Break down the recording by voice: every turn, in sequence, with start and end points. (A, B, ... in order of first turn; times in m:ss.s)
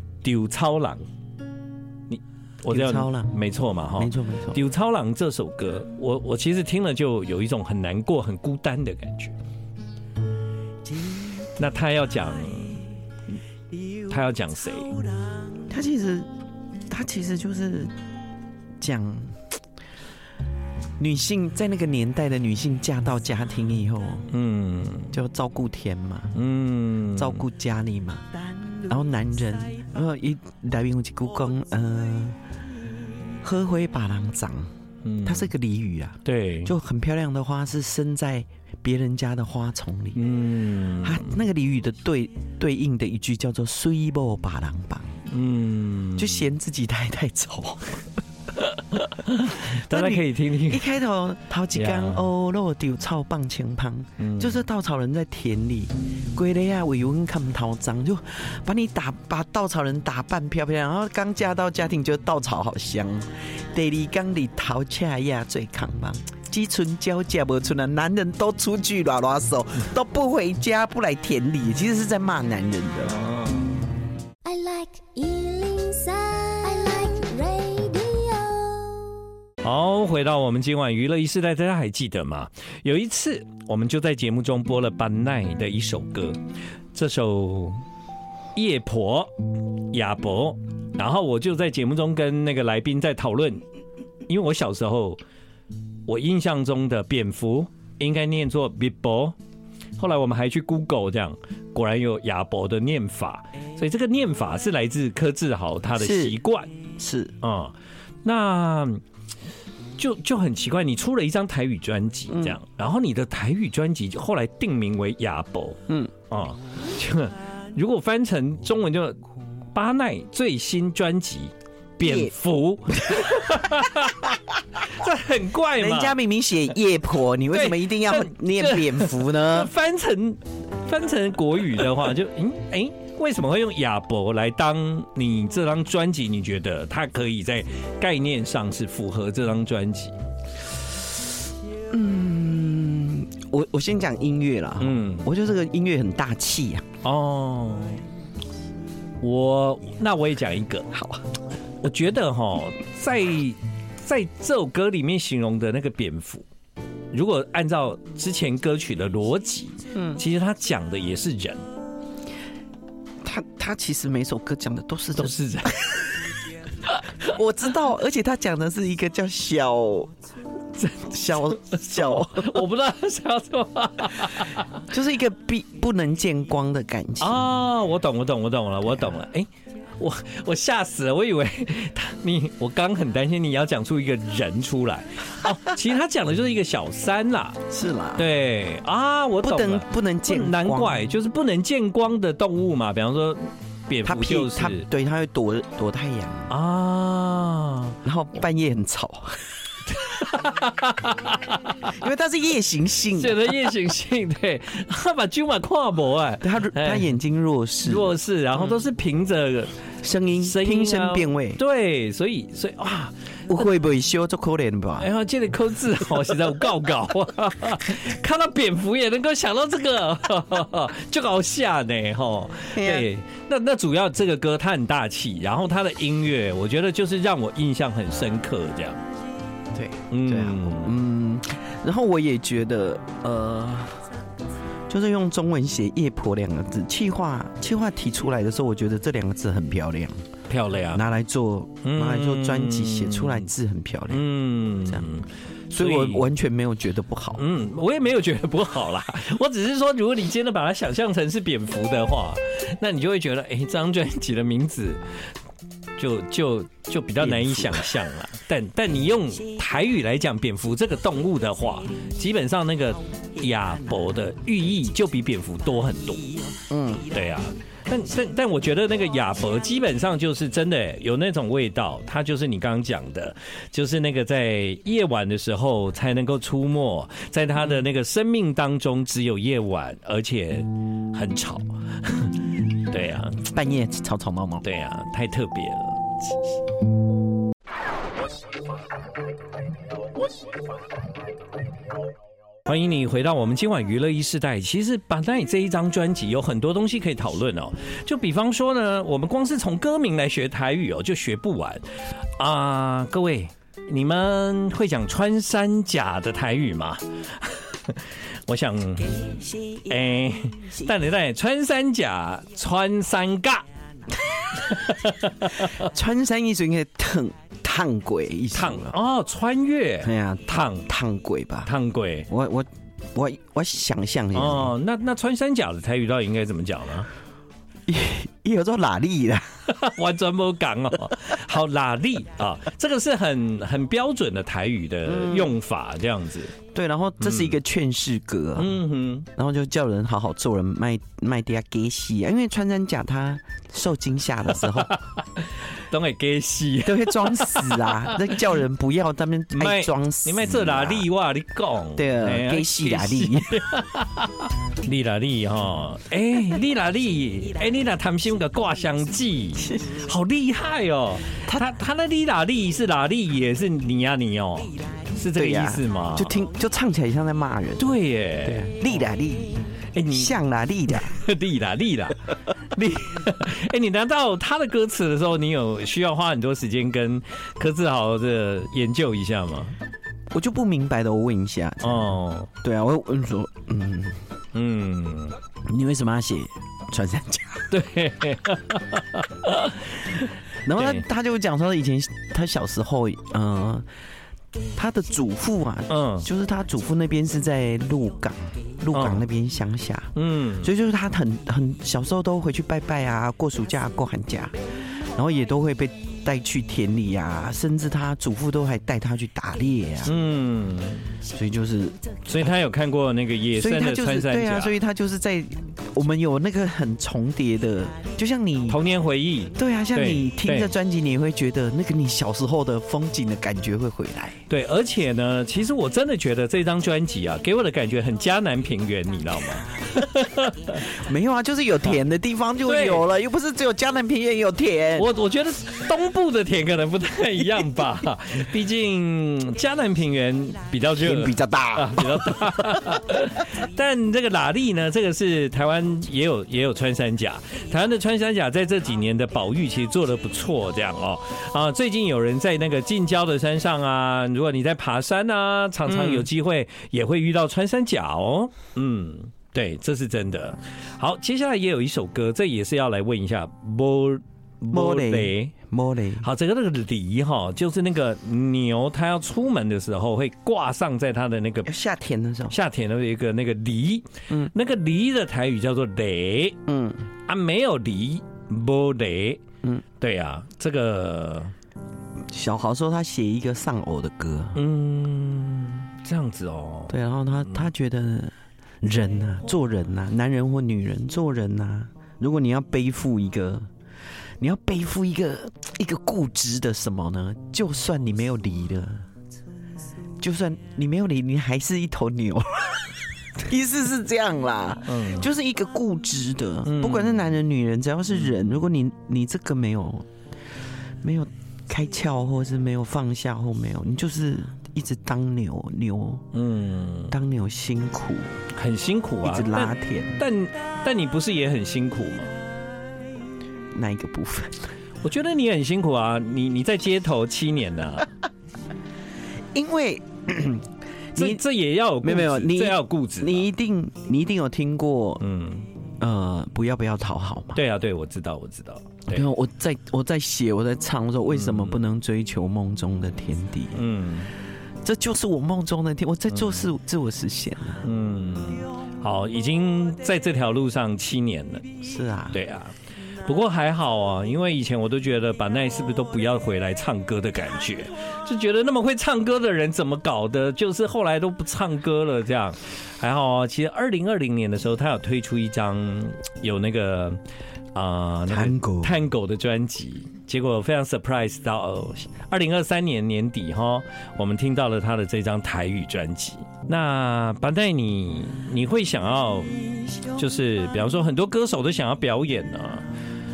0:00.2-0:01.0 A
0:02.1-0:09.3 A
0:02.7-0:03.4 B
0:04.0-0:04.6 B
0:11.6-0:12.8 A
0:14.1-0:14.9 A
0:15.7-0:16.3 B
0:16.9-0:17.9 B
0:18.8-0:19.4 B
0:21.0-0:24.3 B
0:24.3-0:25.1 A
0:25.1-0:26.3 B
0:26.3-0:27.4 A
0:27.1-0:28.2 B
0:28.9-0:32.4 B
0:33.4-0:34.7 B
0:35.0-0:35.5 A
0:35.2-0:40.2 B
0:36.2-0:36.7 A
0:40.1-0:41.3 A
0:41.0-0:45.2 B
0:45.3-0:46.4 A
0:46.2-0:48.1 B
0:48.6-0:50.8 A
0:49.6-1:13.2 B
0:51.7-0:52.2 A
0:54.2-0:54.6 A
1:13.1-1:13.8 A
1:14.4-1:19.2 C
1:19.6-1:26.4 A
1:26.9-1:27.8 A
1:28.6-1:33.6 A
1:34.3-1:35.2 A
1:36.1-1:39.4 A
1:40.0-1:46.7 A
1:46.0-1:46.4 B
1:47.0-1:47.3 B
1:47.4-1:49.0 A
1:50.0-1:59.2 A
1:52.3-1:52.6 B
1:59.7-2:06.2 A
2:02.0-2:02.3 B
2:03.0-2:04.1 B
2:05.8-2:09.7 B
2:07.5-2:20.1 A
2:21.9-2:26.8 B
2:24.8-2:25.3 A
2:27.0-2:28.0 A
2:29.2-2:30.9 A
2:30.9-2:31.2 B
2:31.8-2:36.4 A
2:37.1-2:41.6 A
2:39.9-2:40.2 B
2:43.2-2:46.0 B
2:45.2-2:46.0 A
2:47.2-2:50.1 B
2:50.8-2:54.8 A
2:51.1-2:52.6 B
2:54.9-2:57.4 B
2:57.2-3:07.6 A
3:07.7-3:08.2 B
3:08.2-3:14.9 A
3:09.4-3:11.0 B
3:14.0-3:16.5 B
3:16.5-3:18.0 A
3:18.0-3:19.5 B
3:19.9-3:21.9 A
3:21.8-3:23.6 B
3:23.1-3:27.1 A
3:26.4-3:28.1 B
3:27.8-3:29.8 A
3:30.0-3:31.6 B
3:30.4-3:33.1 A
3:33.5-3:35.1 B
3:35.0-3:49.0 A
3:42.7-3:43.1 B
3:49.7-3:54.1 B
3:50.1-3:51.0 A
3:54.9-4:00.2 B
4:00.5-4:01.0 A
4:00.9-4:04.2 B
4:01.8-4:03.4 A
4:04.1-4:06.2 A
4:05.7-4:07.4 B
4:07.4-4:15.1 A
4:16.0-4:26.3 A
4:17.2-4:17.9 B
4:26.7-4:27.1 B
4:27.1-4:43.4 A
4:43.4-4:44.6 B
4:44.6-4:46.3 A
4:52.6-5:01.8 A
5:02.4-5:13.6 A
5:14.6-5:15.8 A
5:15.6-5:19.0 B
5:18.5-5:20.9 A
5:20.0-5:21.7 B
5:21.6-5:22.3 A
5:22.3-5:24.7 B
5:24.3-5:27.1 A
5:27.9-5:29.5 B
5:29.6-5:36.6 A
5:35.0-5:35.6 B
5:36.7-5:38.8 B
5:37.2-5:37.6 A
5:38.6-5:39.3 A
5:39.3-5:45.0 B
5:44.7-5:48.4 A
5:46.8-5:51.0 B
5:49.5-6:06.4 A
5:52.0-5:53.6 B
6:05.3-6:07.8 B
6:07.8-6:08.8 A
6:08.4-6:11.2 B
6:09.9-6:10.3 A
6:10.9-6:19.8 A
6:20.3-6:24.2 B
6:21.8-6:22.5 A
6:24.5-6:25.4 A
6:25.6-6:27.7 B
6:27.7-6:31.0 A
6:30.6-6:33.9 B
6:34.7-6:44.5 B
6:35.9-6:36.2 A
6:38.9-6:39.2 A
6:40.1-6:40.7 A
6:45.1-6:50.1 B
6:50.0-6:51.1 A
6:51.3-6:52.5 B
6:52.2-6:54.7 A
6:53.5-6:58.8 B
6:58.7-7:00.7 A
6:59.5-7:04.4 B
7:04.5-7:10.9 A
7:10.8-7:15.1 B
7:12.6-7:13.0 A
7:15.0-7:45.5 A
7:21.0-7:22.9 B
7:35.9-7:36.3 B
7:44.7-7:46.2 B
7:46.2-7:51.7 A
7:51.6-7:52.6 B
7:52.5-7:56.6 A
7:56.6-7:57.0 B
7:57.3-7:59.4 A
8:00.0-8:01.5 A
8:02.3-8:04.6 B
8:04.5-8:07.0 A
8:06.9-8:13.7 B
8:14.4-8:19.0 B
8:20.2-8:30.1 B
8:24.9-8:25.3 A
8:26.6-8:27.3 A
8:31.0-8:36.2 B
8:36.3-8:37.1 A
8:37.1-8:38.4 B
8:38.5-8:42.3 A
8:39.2-8:40.2 B
8:43.7-8:44.7 B
8:45.0-8:48.1 A
8:49.5-8:51.4 B
8:51.2-8:53.4 A
8:52.0-8:55.2 B
8:55.2-8:55.7 A
8:56.0-8:57.6 B
8:57.5-8:59.3 A
8:59.1-9:03.8 B
9:01.3-9:01.8 A
9:03.7-9:04.3 A
9:04.8-9:07.8 B
9:06.3-9:06.6 A
9:07.8-9:11.8 A
9:11.8-9:12.4 B
9:12.3-9:27.2 A
9:27.7-9:39.5 A
9:28.3-9:29.0 B
9:40.1-9:42.9 A